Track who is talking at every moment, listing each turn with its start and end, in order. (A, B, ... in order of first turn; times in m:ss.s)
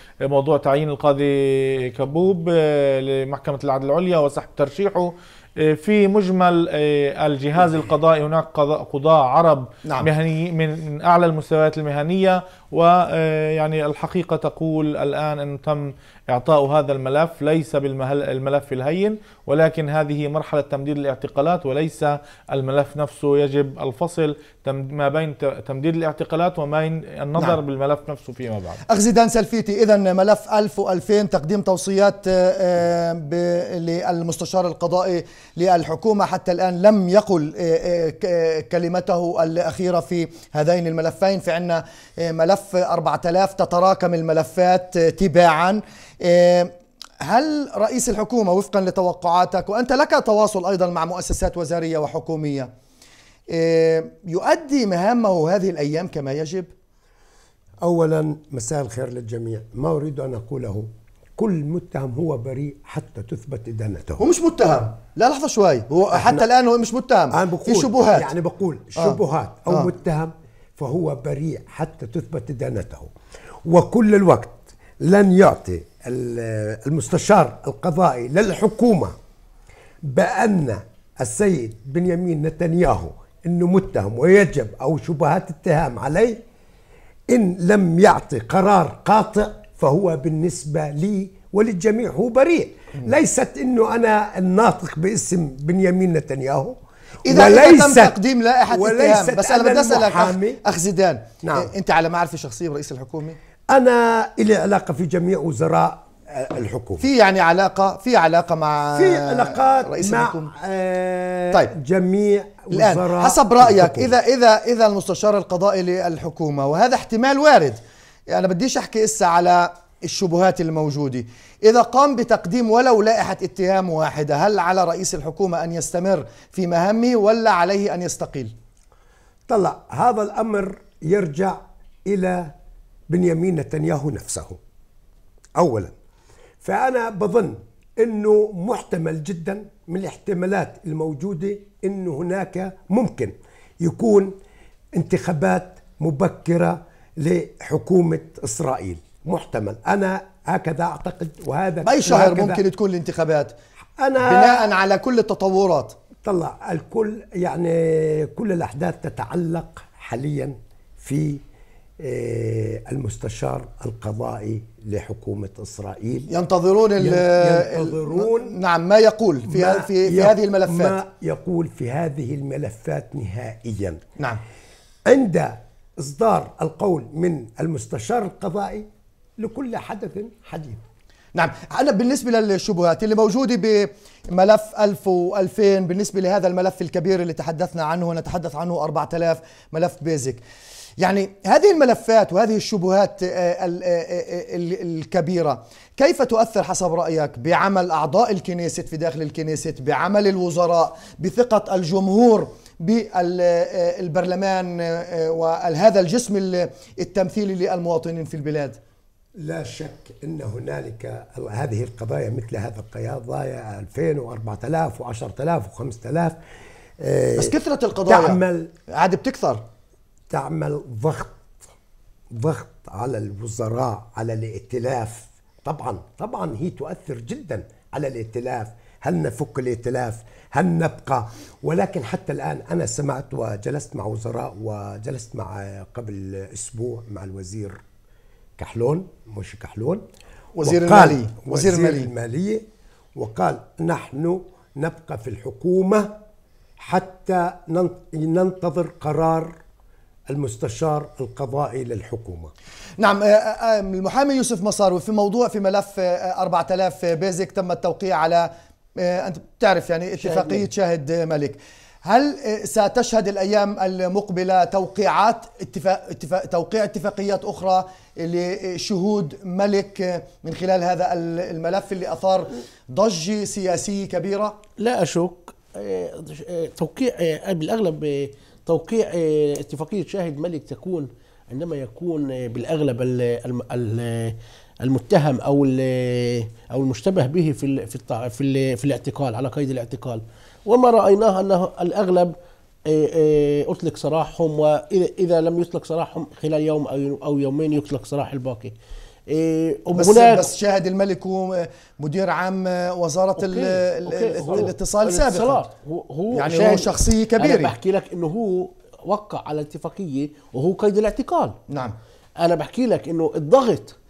0:00.3-0:28.8 A
0:28.9-0:52.7 B
0:53.5-0:56.7 B
0:57.8-1:04.2 C
1:04.2-1:08.3 B
1:06.1-1:06.4 C
1:07.3-1:13.1 C
1:09.0-1:09.9 B
1:13.7-1:19.2 C
1:20.1-1:26.4 C
1:27.3-1:38.2 C
1:37.2-1:43.4 B
1:38.7-1:40.6 C
1:41.4-1:41.7 C
1:43.7-1:47.0 C
1:47.0-1:50.5 B
1:49.0-1:54.1 C
1:52.7-2:08.5 B
2:09.5-2:12.5 C
2:13.1-2:14.6 C
2:15.6-2:15.9 C
2:16.6-2:24.4 C
2:25.0-2:32.6 C
2:31.8-2:33.6 B
2:34.0-2:34.6 C
2:34.2-2:36.0 B
2:36.2-2:41.4 C
2:42.0-2:46.3 C
2:46.3-2:51.0 B
2:47.0-2:48.5 C
2:49.5-2:54.0 C
2:55.1-2:58.9 C
2:59.4-3:00.8 C
3:01.4-3:10.4 B
3:11.0-3:28.8 B
3:29.4-3:36.4 C
3:37.0-3:37.5 C
3:37.4-3:39.6 B
3:38.1-3:38.7 C
3:40.3-3:41.6 C
3:42.3-3:57.8 C
3:58.6-4:00.0 C
4:00.6-4:02.1 B
4:00.6-4:02.6 C
4:03.2-4:06.2 C
4:06.8-4:09.6 C
4:10.3-4:12.5 C
4:13.0-4:34.6 B
4:34.8-4:52.3 D
4:52.9-4:58.7 D
4:59.3-5:00.5 D
4:59.9-5:05.6 B
5:03.4-5:11.6 D
5:06.3-5:07.7 B
5:11.7-5:12.0 B
5:12.4-5:14.0 D